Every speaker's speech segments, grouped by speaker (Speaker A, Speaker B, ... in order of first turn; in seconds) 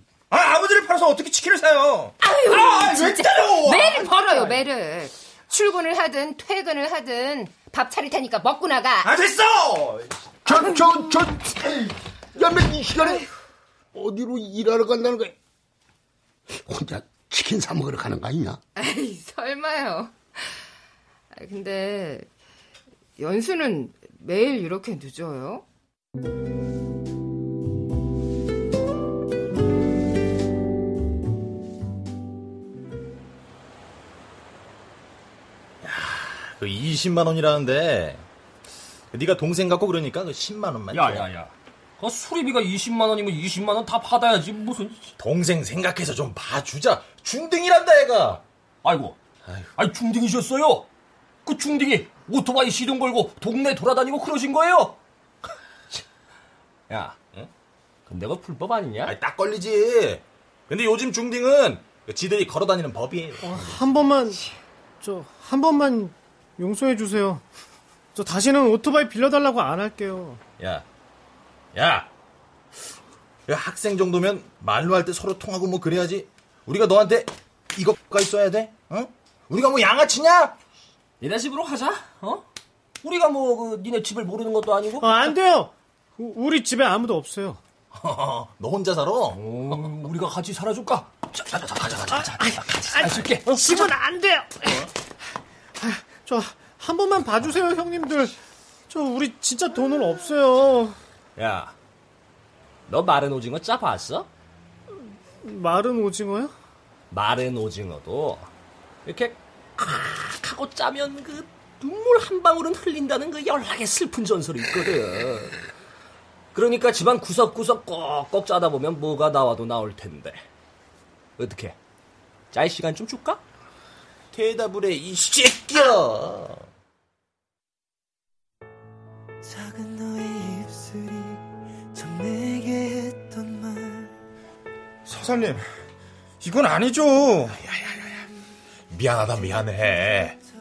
Speaker A: 0.3-4.6, 9.0-10.1, 135.1-135.6, 136.4-137.6
Speaker B: 2.2-9.1, 18.8-20.6, 21.3-22.3, 23.2-25.6
Speaker C: 10.4-13.3, 13.9-15.3, 16.5-18.6
Speaker D: 35.8-38.2, 39.1-41.3, 45.2-48.4, 59.0-63.8, 70.6-70.8, 71.7-72.1, 73.5-80.5, 87.9-89.4, 92.5-93.6, 124.3-125.4, 138.9-140.4
Speaker E: 40.9-45.1, 48.8-50.9, 51.4-55.0, 56.9-57.5, 58.1-59.2, 81.2-82.4, 83.0-85.3, 89.3-91.6, 101.4-101.7, 102.9-104.3, 107.1-108.5, 109.0-115.6, 116.5-120.4, 121.4-121.8, 122.5-123.4, 124.7-126.4
Speaker F: 63.4-64.4, 65.0-67.4, 68.1-70.4, 85.0-87.6, 92.9-94.8, 95.8-98.3, 98.9-101.0, 105.4-106.5